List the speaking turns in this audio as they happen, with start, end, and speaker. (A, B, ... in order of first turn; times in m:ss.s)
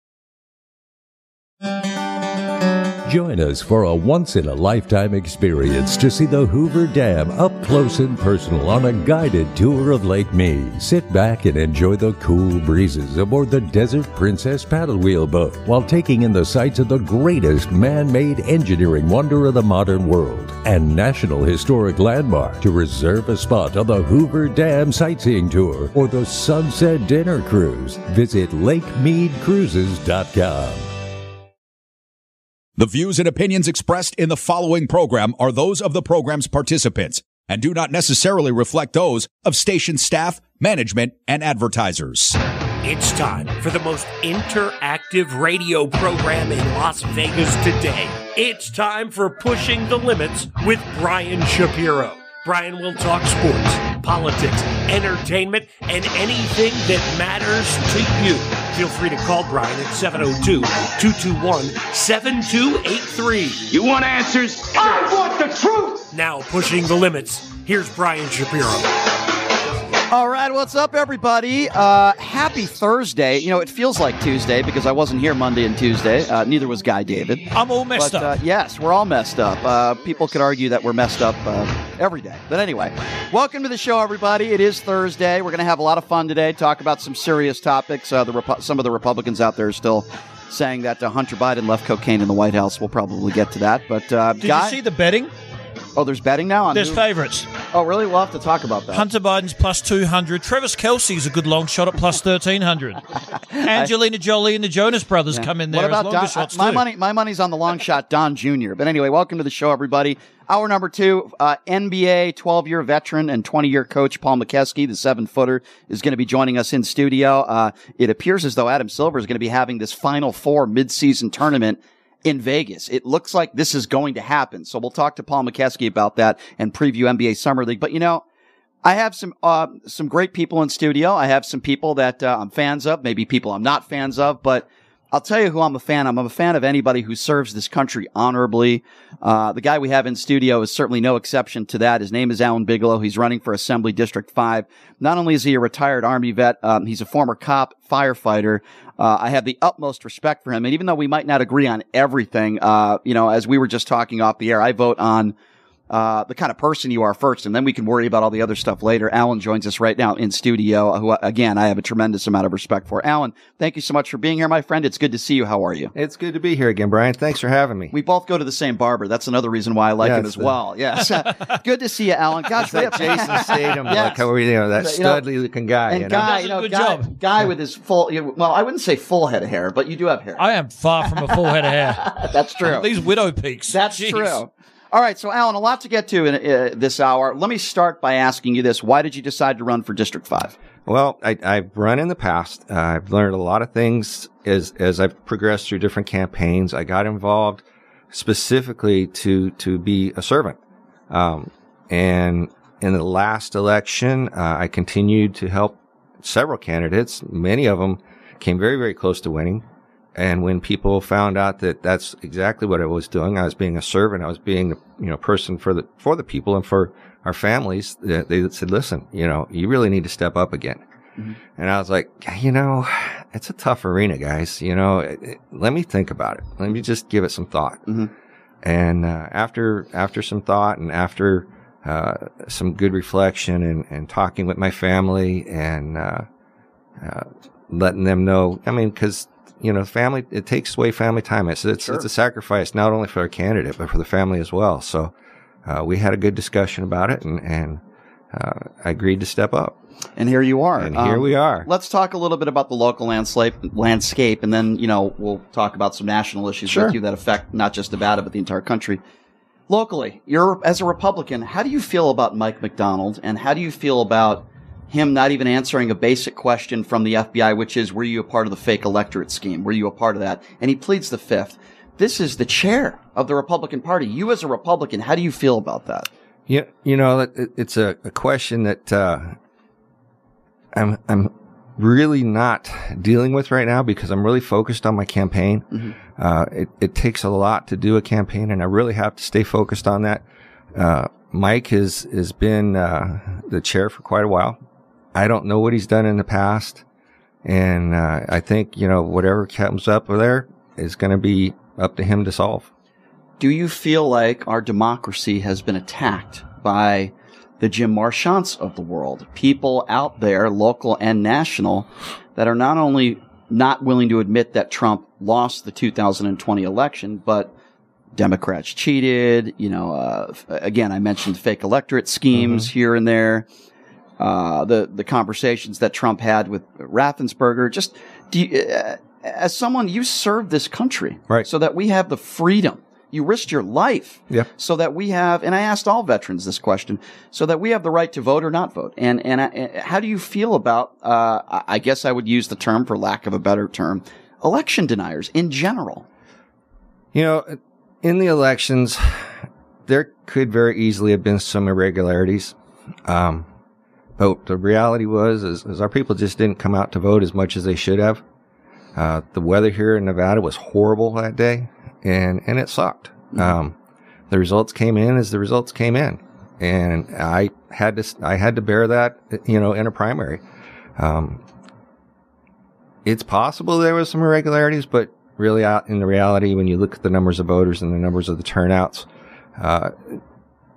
0:03.0-0:30.9 A
0:32.8-0:42.4 B
0:42.8-1:03.7 C
1:03.7-1:06.0 D
1:06.1-1:08.9 C
1:10.1-1:34.8 E
1:17.5-1:18.4 F
1:34.4-1:35.3 F
1:36.0-1:37.0 E
1:36.7-1:37.5 F
1:37.7-1:39.0 E
1:38.9-1:46.8 F
1:43.6-1:43.9 E
1:45.3-2:08.2 E
2:08.8-2:35.3 E
2:35.9-2:45.9 E
2:45.9-2:47.9 G
2:47.9-2:54.2 E
2:50.0-2:50.5 G
2:52.6-2:56.3 G
2:54.8-2:55.2 E
2:55.9-3:00.4 E
2:56.1-2:57.2 F
3:00.4-3:04.4 F
3:02.0-3:02.9 E
3:03.7-3:10.5 E
3:10.8-3:20.6 G
3:21.1-3:29.6 G
3:30.1-3:40.8 G
3:41.6-3:47.9 G
3:48.6-3:56.2 G
3:57.0-4:05.1 G
4:05.6-4:07.8 G
4:08.3-4:09.8 G
4:10.2-4:19.0 E
4:10.8-4:11.7 G
4:16.6-4:17.0 G
4:19.7-4:36.1 E
4:36.5-4:39.4 G
4:40.7-4:54.6 G
4:55.1-4:56.8 G
4:57.4-5:02.7 G
5:03.4-5:17.5 E
5:18.2-5:23.4 E
5:22.4-5:22.7 G
5:24.2-5:46.0 E
5:47.1-5:52.5 G
5:53.0-5:53.5 G
5:54.2-5:58.2 G
5:59.0-6:03.8 G
6:04.3-6:10.4 G
6:11.0-6:11.4 G
6:13.0-6:20.2 G